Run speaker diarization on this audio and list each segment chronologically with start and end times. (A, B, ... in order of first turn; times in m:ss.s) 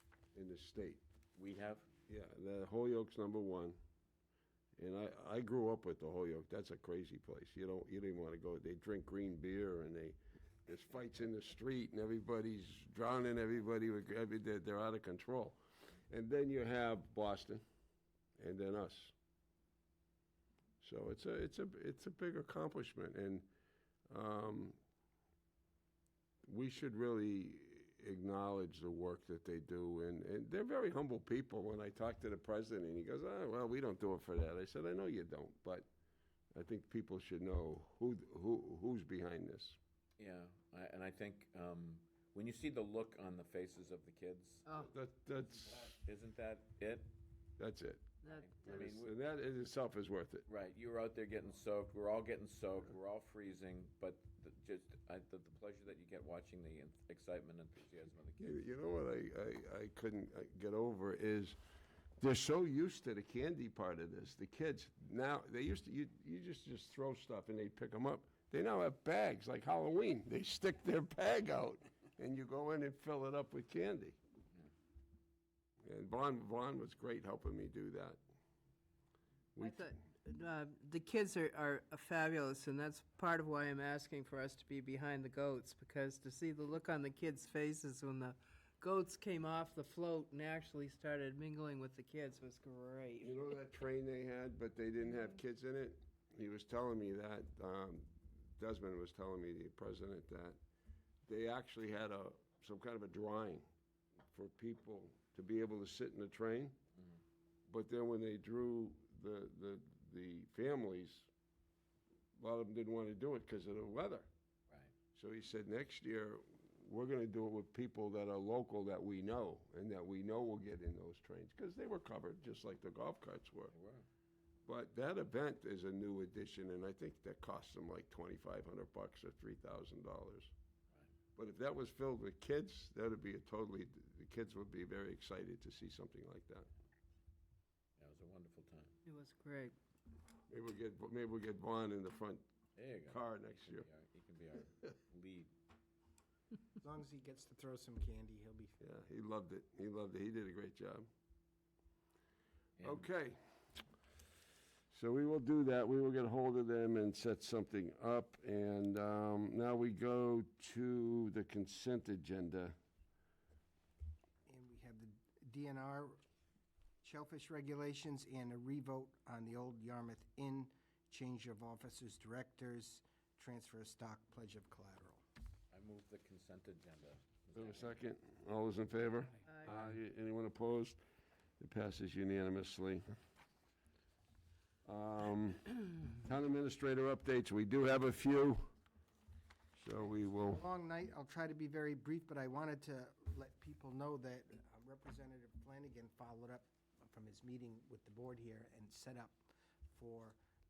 0:00.3-0:01.0 A
0:01.4-0:01.9 B
0:02.1-0:03.8 A
0:04.8-0:15.6 A
0:16.1-0:17.6 A
0:18.4-0:19.1 A
0:20.8-0:23.5 A
0:24.1-0:24.8 A
0:26.4-0:35.9 A
0:36.5-0:39.8 A
0:40.2-0:44.7 B
0:44.7-0:46.0 A
0:45.9-0:47.1 B
0:47.6-0:48.1 A
0:48.3-0:49.1 B
0:48.6-0:50.4 A
0:50.5-0:58.5 B
0:58.4-1:01.6 A
1:02.2-1:14.2 A
1:15.8-1:18.2 A
1:19.6-1:19.9 A
1:19.6-1:33.4 C
1:33.2-1:40.6 A
1:41.3-1:43.6 A
1:44.3-1:46.8 A
1:47.7-1:51.3 A
1:52.4-1:54.3 A
1:55.1-2:03.7 A
2:03.7-2:04.0 B
2:04.6-2:10.5 A
2:11.4-2:16.7 A
2:18.0-2:19.0 B
2:19.0-2:19.8 C
2:20.5-2:22.4 A
2:22.8-2:25.5 B
2:23.1-2:23.8 A
2:26.8-2:28.8 D
2:28.8-2:31.1 A
2:32.8-2:33.1 B
2:32.8-2:33.4 A
2:34.9-2:42.7 A
2:44.5-2:46.2 D
2:47.0-2:55.2 D
2:55.7-2:58.0 B
2:57.5-3:01.0 A
3:01.6-3:03.0 A
3:04.8-3:08.7 A
3:09.8-3:10.6 A
3:10.3-3:20.4 D